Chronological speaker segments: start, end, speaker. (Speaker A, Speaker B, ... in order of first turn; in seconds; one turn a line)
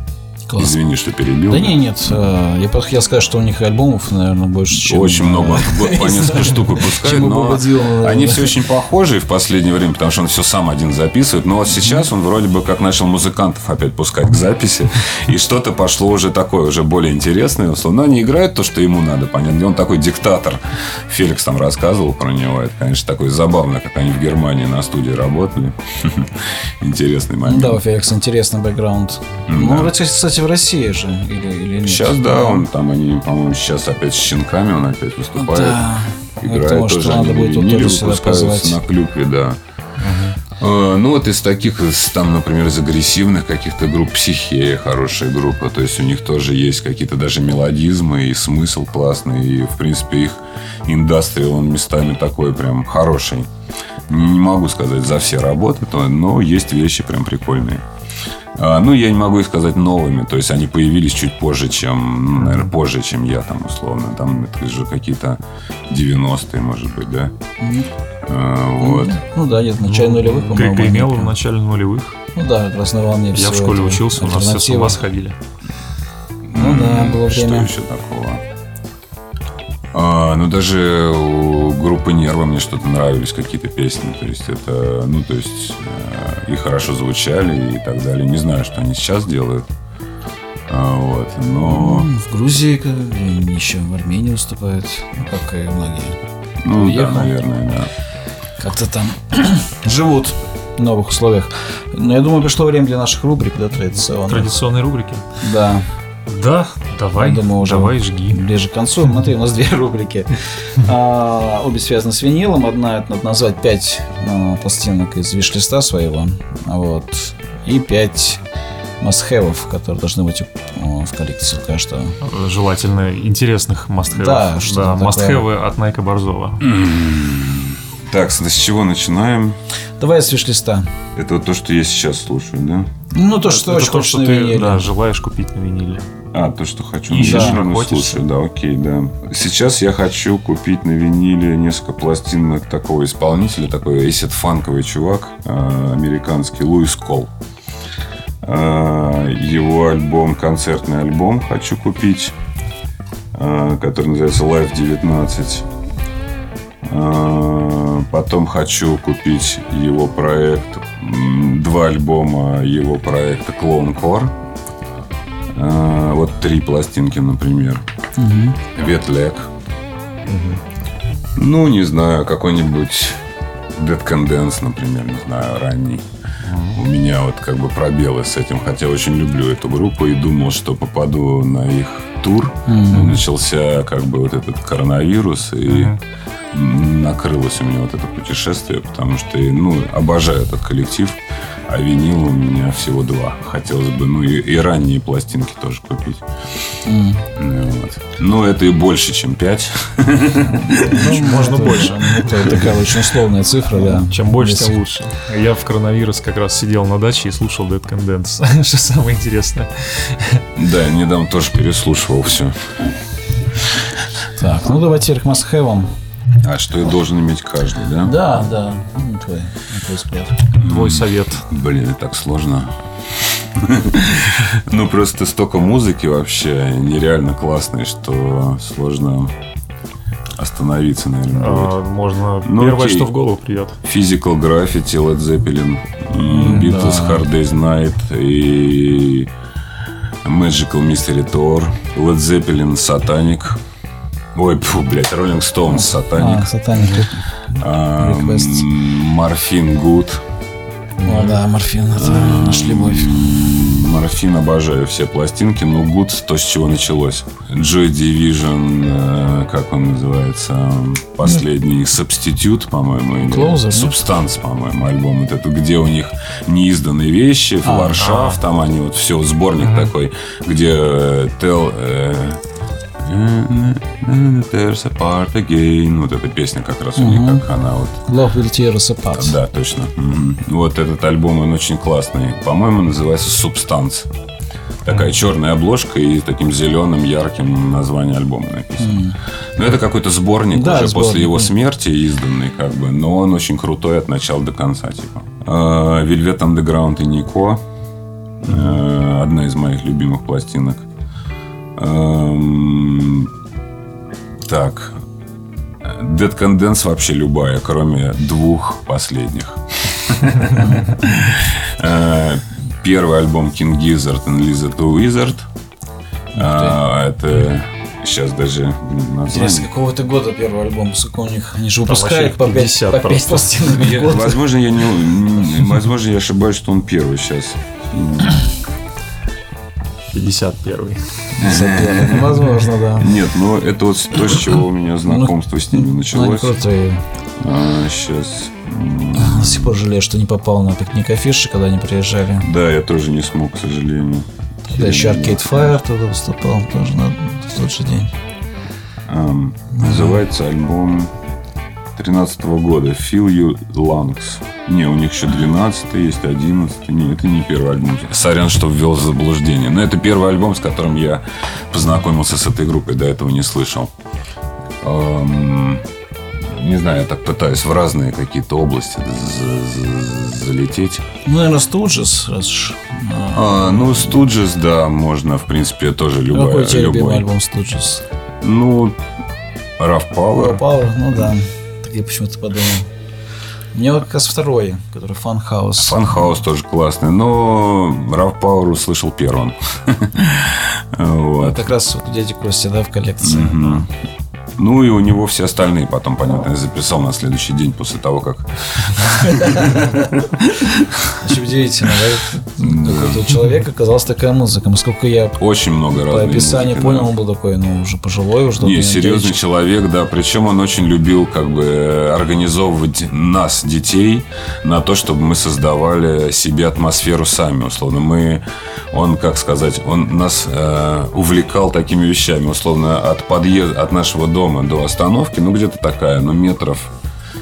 Speaker A: 0.5-0.8
Speaker B: 0.6-2.3
Speaker A: 1.5-8.6
Speaker B: 4.7-27.8
Speaker A: 27.4-32.6
Speaker B: 29.5-29.9
Speaker B: 31.8-35.9
Speaker A: 35.4-38.8
Speaker B: 36.4-39.6
Speaker C: 40.0-40.4
Speaker B: 40.6-53.5
Speaker B: 54.1-57.8
Speaker B: 58.6-67.3
Speaker A: 67.6-67.9
Speaker B: 68.2-69.2
Speaker A: 68.8-71.3
Speaker C: 69.8-72.2
Speaker A: 72.3-75.0
Speaker C: 73.3-75.4
Speaker B: 76.5-78.4
Speaker A: 76.5-77.7
Speaker B: 79.9-89.7
Speaker B: 90.7-92.1
Speaker A: 91.6-96.2
Speaker B: 96.6-97.9
Speaker A: 96.7-97.3
Speaker A: 98.6-104.6
Speaker C: 104.3-105.3
Speaker A: 105.4-105.9
Speaker C: 106.3-108.4
Speaker A: 107.2-118.4
Speaker A: 119.0-122.2
Speaker C: 122.2-126.6
Speaker A: 124.1-125.5
Speaker B: 126.6-129.6
Speaker A: 130.0-130.9
Speaker B: 131.2-132.9
Speaker A: 133.1-134.8
Speaker C: 133.4-136.1
Speaker B: 136.3-147.3
Speaker C: 137.1-138.2
Speaker A: 137.1-137.6
Speaker B: 148.4-152.4
Speaker B: 153.3-155.7
Speaker B: 156.8-164.3
Speaker B: 165.5-167.8
Speaker A: 168.2-168.6
Speaker B: 168.7-169.5
Speaker C: 170.3-170.6
Speaker B: 171.4-173.2
Speaker B: 173.7-176.1
Speaker C: 176.4-176.8
Speaker B: 176.7-186.0
Speaker A: 182.7-183.2
Speaker C: 185.7-186.0
Speaker B: 186.5-196.2
Speaker A: 196.8-197.3
Speaker B: 197.4-201.0
Speaker A: 200.5-204.8
Speaker C: 200.8-202.7
Speaker C: 203.7-210.4
Speaker B: 210.6-212.7
Speaker A: 214.4-215.9
Speaker B: 216.4-218.2
Speaker A: 218.0-220.5
Speaker B: 220.6-229.3
Speaker C: 220.6-221.4
Speaker B: 230.4-231.7
Speaker C: 231.3-233.8
Speaker B: 232.4-233.1
Speaker B: 233.8-239.3
Speaker A: 236.3-237.2
Speaker B: 240.2-243.6
Speaker B: 244.3-246.5
Speaker A: 245.7-247.2
Speaker C: 246.7-247.1
Speaker B: 247.5-250.2
Speaker A: 248.0-248.7
Speaker A: 251.0-253.2
Speaker C: 251.0-251.4
Speaker B: 251.9-272.4
Speaker A: 263.2-264.0
Speaker A: 267.6-268.1
Speaker C: 268.0-268.4
Speaker C: 269.6-269.9
Speaker B: 273.0-278.0
Speaker A: 277.0-277.5
Speaker A: 278.1-279.4
Speaker B: 279.1-284.1
Speaker B: 284.8-297.6
Speaker A: 288.8-289.2
Speaker A: 290.5-291.5
Speaker B: 298.4-300.9
Speaker B: 301.8-303.3
Speaker B: 304.5-305.0
Speaker B: 305.8-315.5
Speaker A: 310.6-310.9
Speaker A: 316.3-316.8
Speaker B: 316.4-319.7
Speaker A: 319.3-324.4
Speaker C: 321.9-324.0
Speaker B: 323.8-328.4
Speaker C: 330.1-331.4
Speaker A: 331.4-333.1
Speaker B: 331.4-332.4
Speaker B: 333.0-336.6
Speaker A: 335.1-337.1
Speaker B: 337.4-339.8
Speaker A: 339.1-342.5
Speaker B: 342.4-345.7
Speaker A: 344.7-348.1
Speaker B: 349.1-351.1
Speaker A: 349.7-350.2
Speaker B: 352.0-363.9
Speaker B: 364.8-365.9
Speaker B: 366.5-371.1
Speaker A: 371.2-374.2
Speaker B: 373.3-377.3
Speaker A: 376.3-378.0
Speaker B: 378.4-379.0
Speaker B: 379.8-380.6
Speaker A: 380.4-382.9
Speaker A: 383.7-386.2
Speaker B: 385.8-391.7
Speaker A: 391.4-393.9
Speaker B: 393.2-393.9
Speaker B: 394.6-401.0
Speaker A: 399.1-400.1
Speaker A: 401.2-405.4
Speaker B: 402.6-403.4
Speaker B: 405.4-407.1
Speaker A: 406.0-409.4
Speaker B: 408.6-426.9